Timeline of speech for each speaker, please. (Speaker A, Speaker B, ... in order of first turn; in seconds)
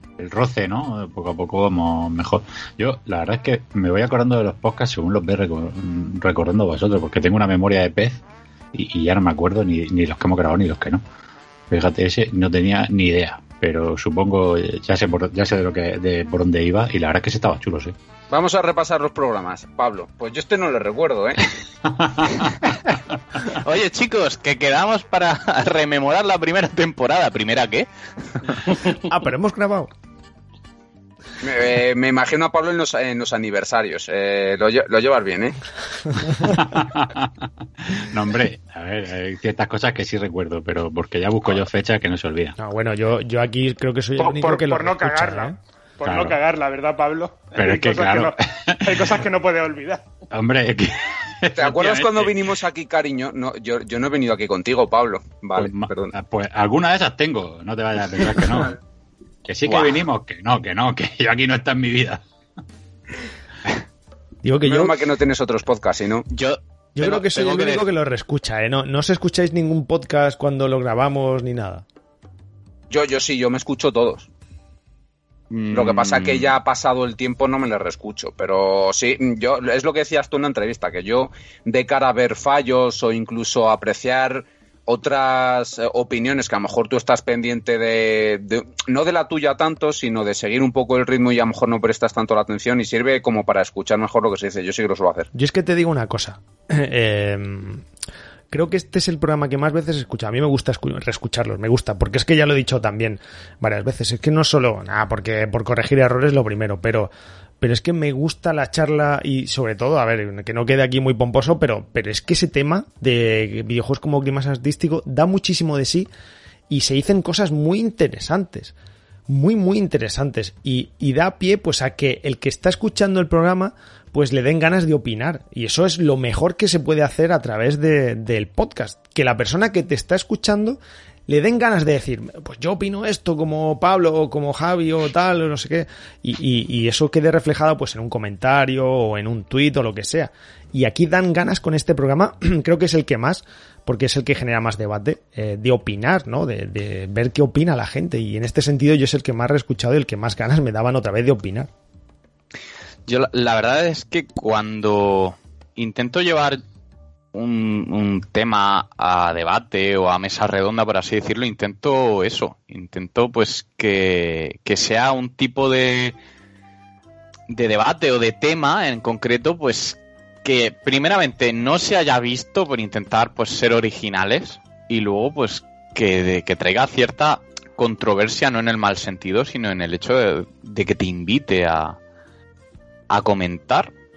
Speaker A: 0.2-8.2, 8.7-11.0, 11.7-17.9, 21.9-22.7, 36.4-42.6, 46.0-46.4, 47.6-49.1, 50.3-52.5, 55.6-58.8, 59.5-62.2
Speaker B: 18.3-21.5, 31.4-35.6, 51.5-56.1, 64.6-66.3, 72.9-74.3, 75.7-95.3
Speaker C: 23.5-27.9, 59.6-60.0, 66.3-67.9, 75.5-76.5, 153.1-156.6, 157.3-166.2, 167.5-182.0, 183.1-183.9
Speaker D: 28.9-29.9, 42.6-45.6, 64.4-65.0, 67.0-71.8, 95.3-97.8, 98.5-116.1, 116.7-118.7, 119.3-151.7
Speaker E: 44.2-50.0